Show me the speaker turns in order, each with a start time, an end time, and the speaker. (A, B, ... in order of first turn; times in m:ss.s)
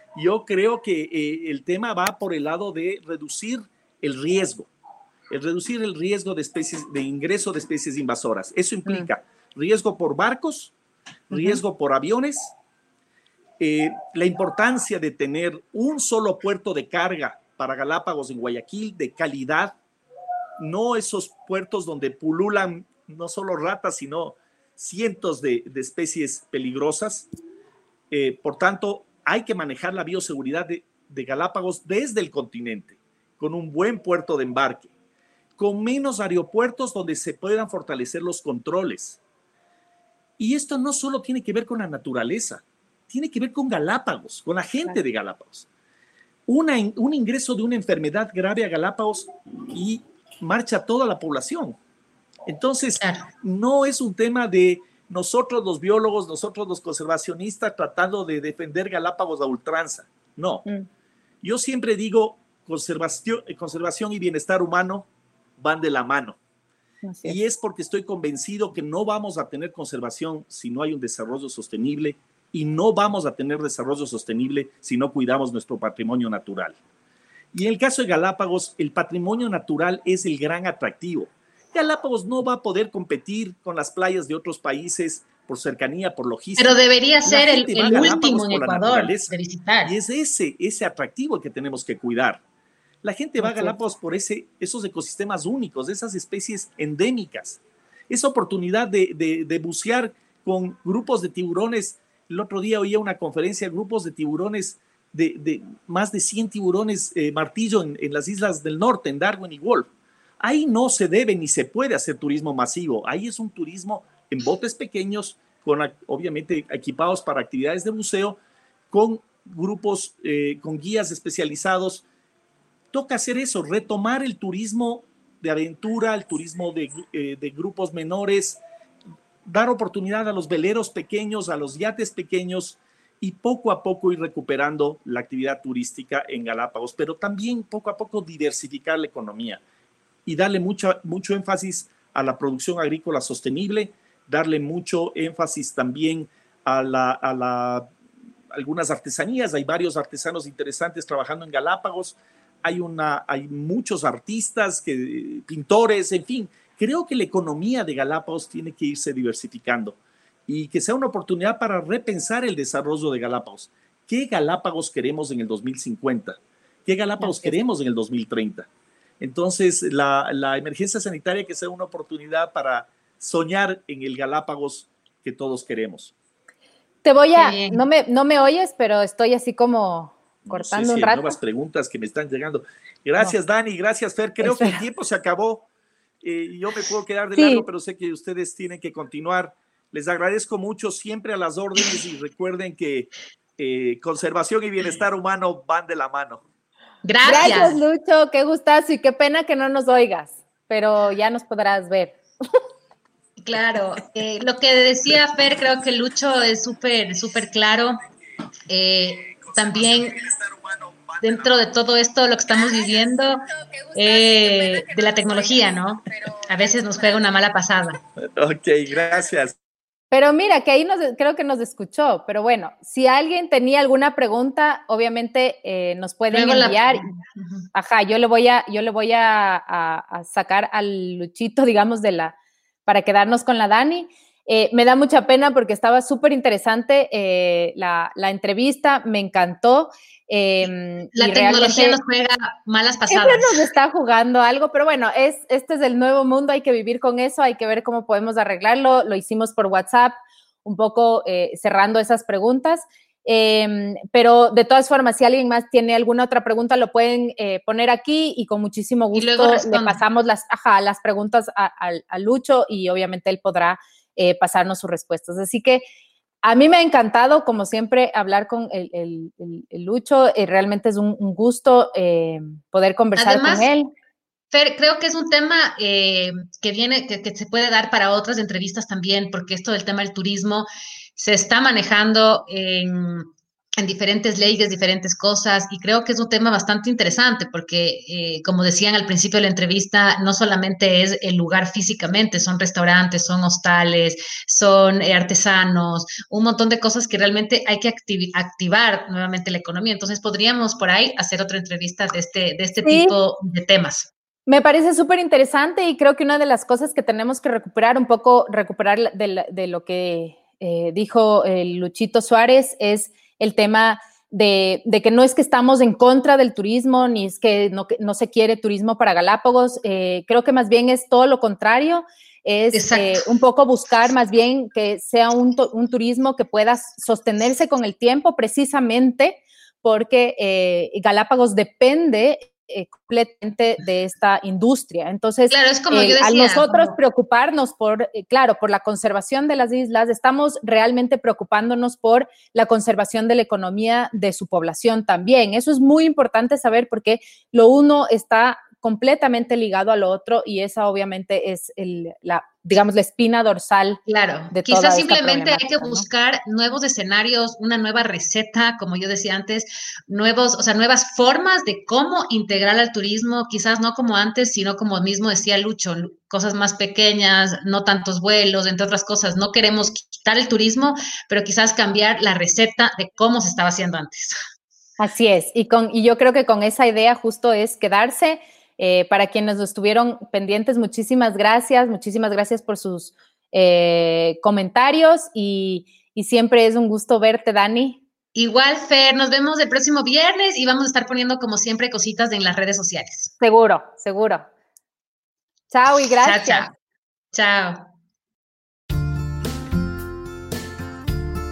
0:00.2-0:04.7 A
0:05.3-0:10.7 A
0:11.3-0:12.5 A
0:13.6-0:19.8 A
0:20.6-0:27.3 A
0:28.1-0:34.9 A
0:35.6-0:39.2 A
0:40.4-0:45.7 A
0:46.5-0:51.8 A
0:52.5-1:00.7 A
0:53.0-0:53.3 B
1:01.4-1:05.1 A
1:05.6-1:06.4 A
1:07.0-1:07.4 C
1:07.2-1:16.8 A
1:17.5-1:32.4 A
1:26.6-1:30.0 B
1:33.0-1:49.9 A
1:33.4-1:33.8 C
1:50.4-1:58.4 A
1:58.9-2:02.0 A
2:02.9-2:08.6 A
2:09.4-2:19.6 A
2:20.3-2:27.9 A
2:28.5-2:48.7 A
2:47.2-2:47.6 C
2:49.2-2:56.1 A
2:57.0-3:01.3 C
2:57.4-2:57.8 B
3:00.5-3:05.7 A
3:04.4-3:04.8 C
3:06.2-3:16.4 A
3:07.4-3:07.7 C
3:17.0-3:17.8 B
3:17.2-3:22.2 C
3:17.3-3:17.7 A
3:23.4-3:28.0 B
3:28.7-3:30.3 B
3:31.2-3:38.0 B
3:33.9-3:35.6 C
3:38.2-3:39.6 A
3:40.1-3:47.2 C
3:46.3-3:47.7 B
3:47.7-3:52.4 C
3:52.9-4:02.0 C
4:01.2-4:03.7 B
4:03.1-4:25.8 C
4:19.1-4:20.0 B
4:26.4-4:33.9 C
4:33.2-4:33.7 B
4:34.5-5:04.1 B
5:02.8-5:03.2 C
5:04.5-5:54.0 C
5:22.7-5:23.2 B
5:35.5-5:37.0 B
5:54.1-6:14.4 B
5:54.5-5:56.1 C
6:15.0-6:28.0 C
6:28.4-6:33.3 B
6:33.4-6:34.5 C
6:35.7-6:36.7 C
6:36.2-6:36.8 B
6:37.3-6:37.9 B